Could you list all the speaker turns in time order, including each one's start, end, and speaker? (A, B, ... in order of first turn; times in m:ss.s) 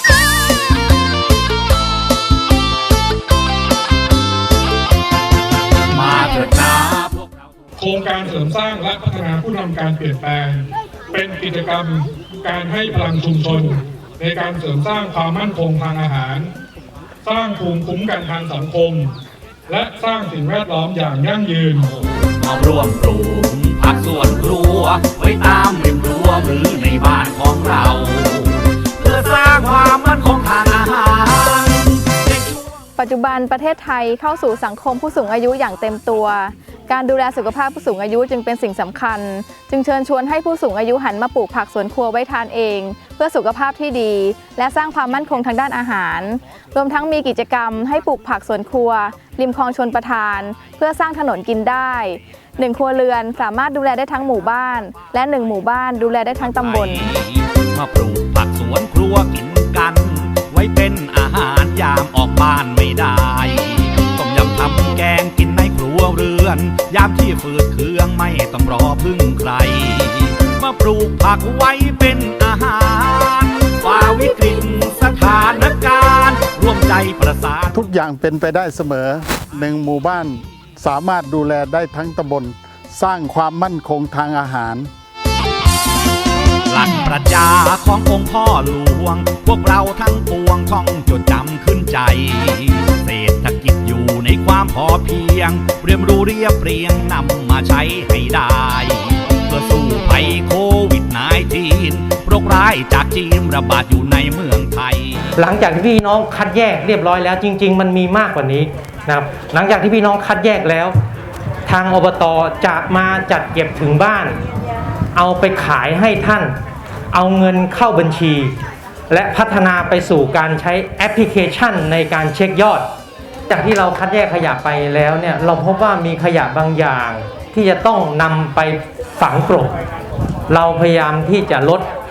0:05.9-0:07.2 A
0:07.8-0:16.5 B
0:17.2-0:19.1 B
0:19.7-0:21.9 B
0:21.9-0:32.6 A
0:33.0-0:57.1 C
0:56.5-1:17.8 A
1:17.7-1:24.9 D
1:26.7-1:45.3 A
1:45.4-1:51.0 E
1:51.7-1:54.4 E
1:55.2-1:56.6 E
1:57.1-1:58.5 E
1:59.1-2:02.9 E
2:03.5-2:09.8 E
2:10.5-2:11.8 E